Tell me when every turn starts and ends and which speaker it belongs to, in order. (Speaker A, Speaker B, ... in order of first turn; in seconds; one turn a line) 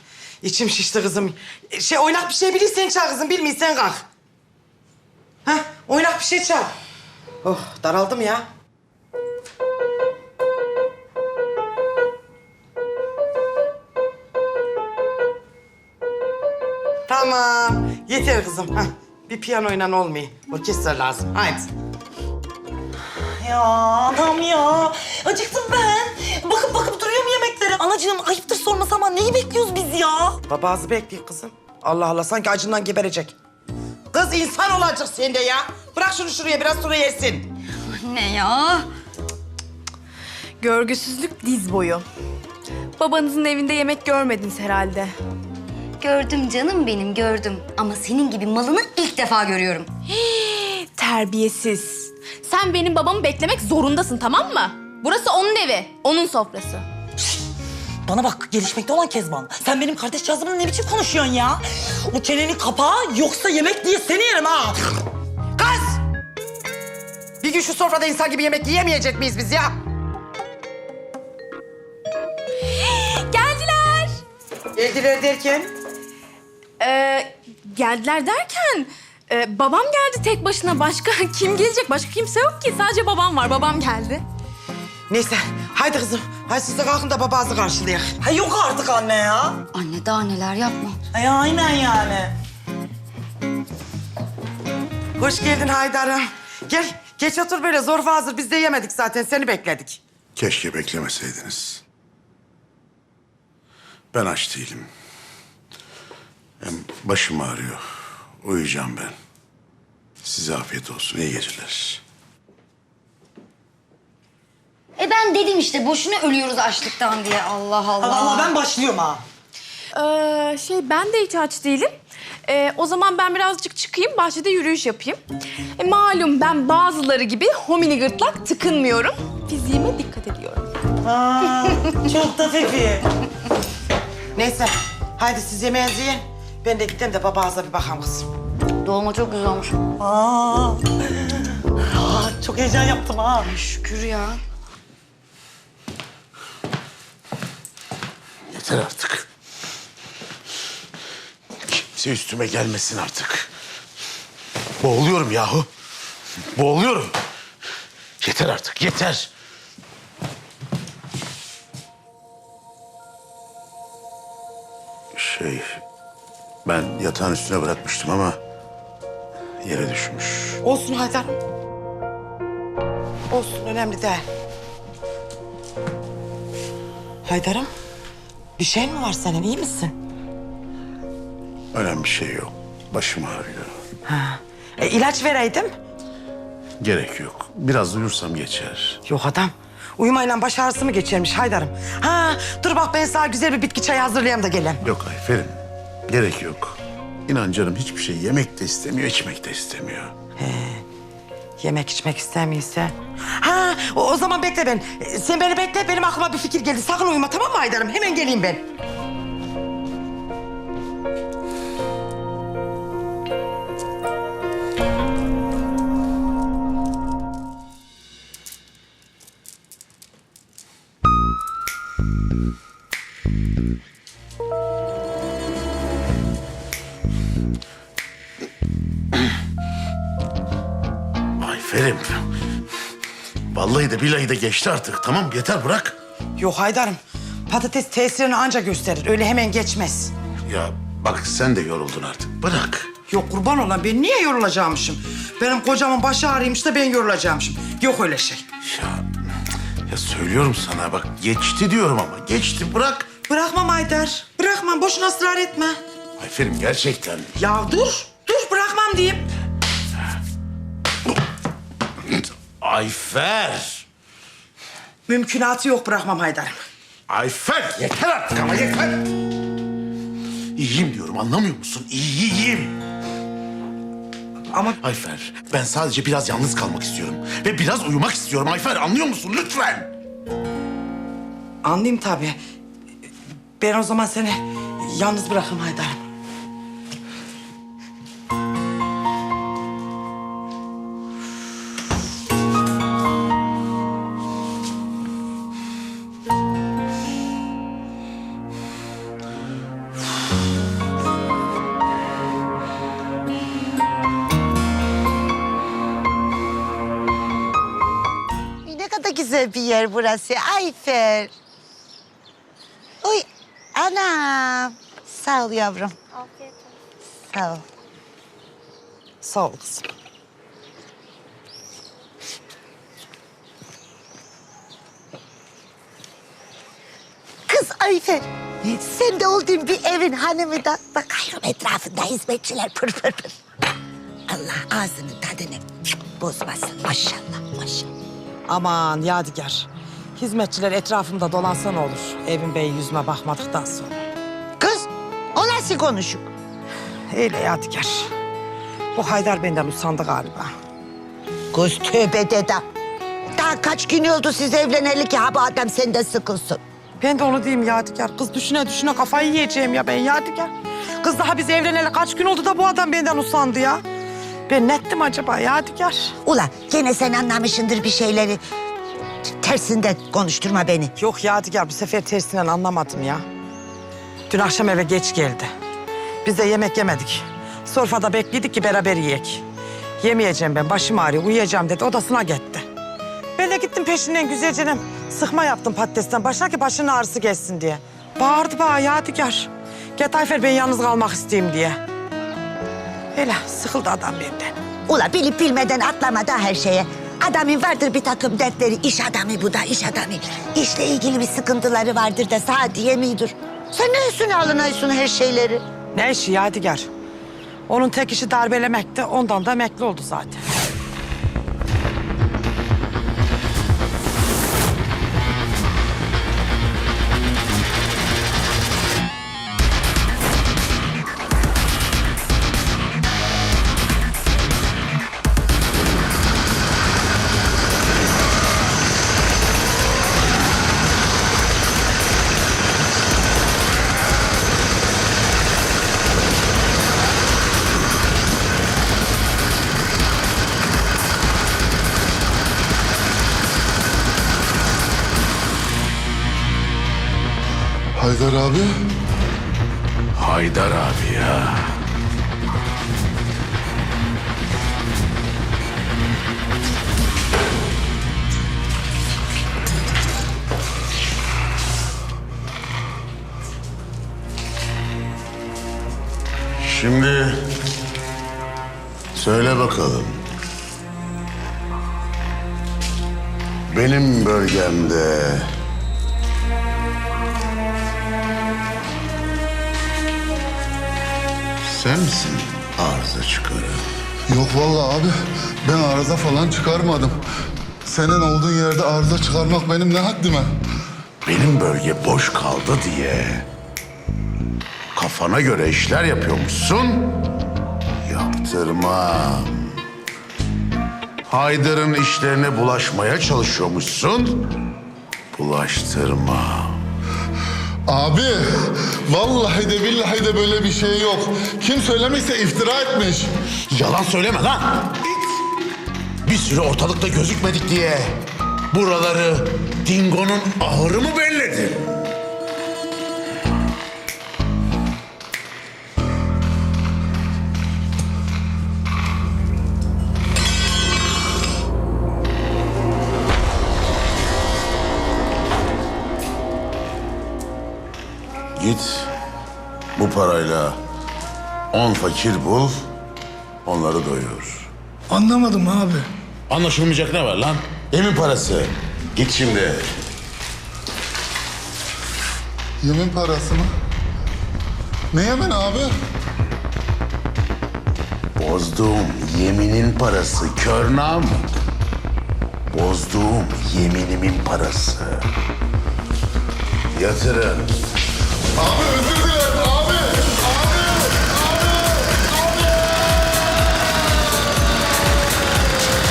Speaker A: 0.4-4.0
Speaker A: 5.5-6.7
Speaker A: 7.4-8.5
Speaker A: 17.1-21.7
Speaker B: 23.4-30.4
Speaker A: 30.5-33.3
Speaker A: 34.1-37.5
Speaker C: 37.9-38.9
Speaker D: 40.6-42.0
Speaker D: 43.0-45.1
Speaker C: 46.0-49.9
Speaker D: 50.1-56.9
Speaker B: 58.1-64.8
Speaker A: 65.6-65.9
Speaker A: 67.4-69.7
Speaker D: 72.8-74.2
Speaker A: 74.8-75.7
Speaker D: 76.8-84.2
Speaker A: 85.1-88.1
Speaker B: 88.2-89.6
Speaker C: 89.7-91.0
Speaker B: 91.1-92.3
Speaker A: 95.2-100.0
Speaker E: 100.3-101.8
Speaker E: 104.1-104.9
Speaker E: 106.6-107.8
Speaker E: 108.4-109.2
Speaker E: 110.2-112.0
Speaker C: 115.0-118.6
Speaker B: 118.0-119.2
Speaker D: 120.0-121.9
Speaker D: 122.5-125.2
Speaker D: 125.8-130.7
Speaker A: 131.1-131.5
Speaker A: 132.0-133.0
Speaker A: 134.3-138.3
Speaker C: 138.8-139.9
Speaker A: 142.1-143.5
Speaker C: 143.5-144.4
Speaker E: 148.5-149.3
Speaker E: 151.7-153.5
Speaker E: 154.8-155.7
Speaker E: 156.5-157.2
Speaker E: 158.2-159.3
Speaker E: 165.2-165.8
Speaker E: 166.7-168.4
Speaker E: 169.6-170.6
Speaker A: 170.6-171.4
Speaker A: 173.3-174.2
Speaker A: 177.2-177.7
Speaker A: 178.6-179.9
Speaker E: 181.7-183.7
Speaker A: 184.1-185.7
Speaker E: 186.8-189.0
Speaker A: 189.1-194.8
Speaker E: 194.8-195.6
Speaker E: 196.1-200.1
Speaker A: 200.4-200.8
Speaker A: 201.6-208.6
Speaker E: 231.4-232.3
Speaker E: 233.5-236.0
Speaker A: 236.4-240.1
Speaker E: 240.5-242.9
Speaker A: 243.1-248.4
Speaker E: 248.6-249.1
Speaker E: 249.9-253.1
Speaker A: 253.3-255.8
Speaker E: 256.2-257.3
Speaker A: 257.4-259.3
Speaker E: 262.1-263.9
Speaker A: 265.1-266.6
Speaker E: 267.1-269.1
Speaker E: 270.6-272.8
Speaker A: 274.5-274.8
Speaker E: 274.8-279.9
Speaker A: 281.6-282.4
Speaker A: 283.6-286.0
Speaker F: 308.6-311.3
Speaker F: 313.0-316.5
Speaker F: 317.3-317.6
Speaker A: 319.2-319.9
Speaker F: 327.5-333.4
Speaker F: 334.3-337.9
Speaker A: 338.5-344.0
Speaker F: 344.6-346.3
Speaker A: 347.1-348.1
Speaker A: 348.9-350.5
Speaker F: 351.5-352.6
Speaker F: 353.4-356.6
Speaker A: 357.0-363.8
Speaker A: 364.5-366.1
Speaker F: 366.2-368.4
Speaker F: 369.4-370.9
Speaker A: 371.0-373.2
Speaker A: 374.3-375.5
Speaker A: 376.2-379.4
Speaker A: 380.0-382.6
Speaker A: 383.4-391.8
Speaker A: 393.1-394.5
Speaker F: 394.9-405.6
Speaker A: 405.9-406.9
Speaker A: 407.7-410.4
Speaker G: 447.9-448.7
Speaker E: 450.1-451.8
Speaker E: 466.6-467.4
Speaker E: 469.1-470.2
Speaker E: 473.7-475.5
Speaker E: 481.6-483.8
Speaker G: 484.3-485.1
Speaker G: 485.6-487.2
Speaker G: 487.9-490.5
Speaker E: 491.2-493.5
Speaker E: 494.9-497.3
Speaker E: 498.0-499.8
Speaker E: 501.3-504.5
Speaker E: 505.3-506.8
Speaker G: 507.9-513.3
Speaker E: 513.7-515.4
Speaker E: 516.2-522.0
Speaker E: 538.6-539.1
Speaker E: 540.0-540.8
Speaker E: 541.7-542.9
Speaker E: 543.6-544.7
Speaker E: 546.5-549.8
Speaker G: 552.8-553.7
Speaker G: 555.1-555.9
Speaker E: 558.4-561.5
Speaker E: 562.7-565.3
Speaker E: 566.9-567.7
Speaker G: 568.6-572.9